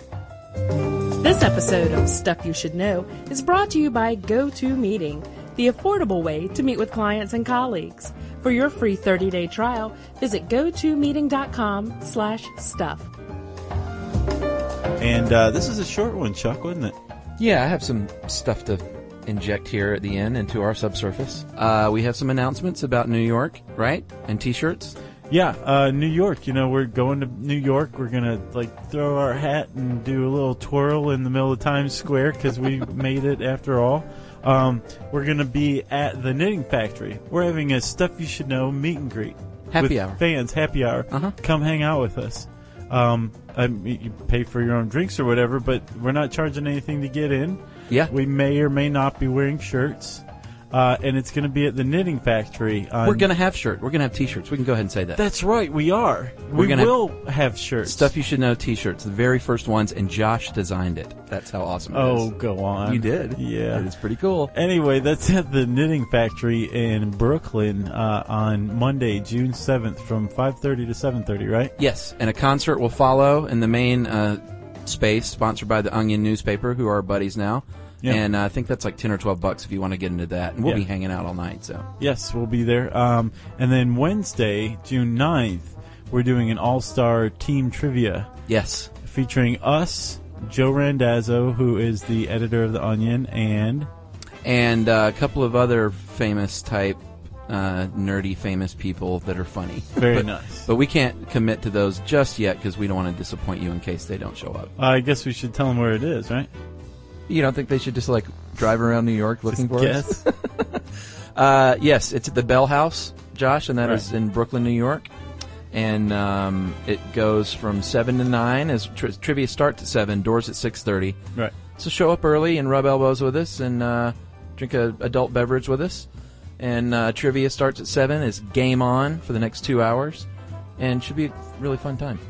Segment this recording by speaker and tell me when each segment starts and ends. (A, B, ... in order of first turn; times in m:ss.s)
0:01.2-0:13.1 A
0:15.0-0:16.9 B
0:17.4-0:25.0 C
0:25.3-0:53.3 B
0:39.7-0:40.2 C
0:41.1-0:41.4 C
0:53.0-0:55.2 C
0:55.2-0:58.1 B
0:56.6-0:56.9 C
0:57.8-1:02.3 C
1:01.9-1:03.9 B
1:02.8-1:04.5 C
1:04.5-1:11.7 B
1:11.8-1:21.9 C
1:22.0-1:28.3 B
1:28.5-1:28.9 C
1:29.0-1:33.9 B
1:34.4-1:44.7 C
1:39.9-1:40.7 B
1:44.8-1:46.5 B
1:47.3-1:50.8 C
1:49.5-1:50.2 B
1:51.4-1:55.1 C
1:55.7-2:01.2 C
2:01.8-2:06.1 C
2:06.6-2:10.3 C
2:10.8-2:12.2 C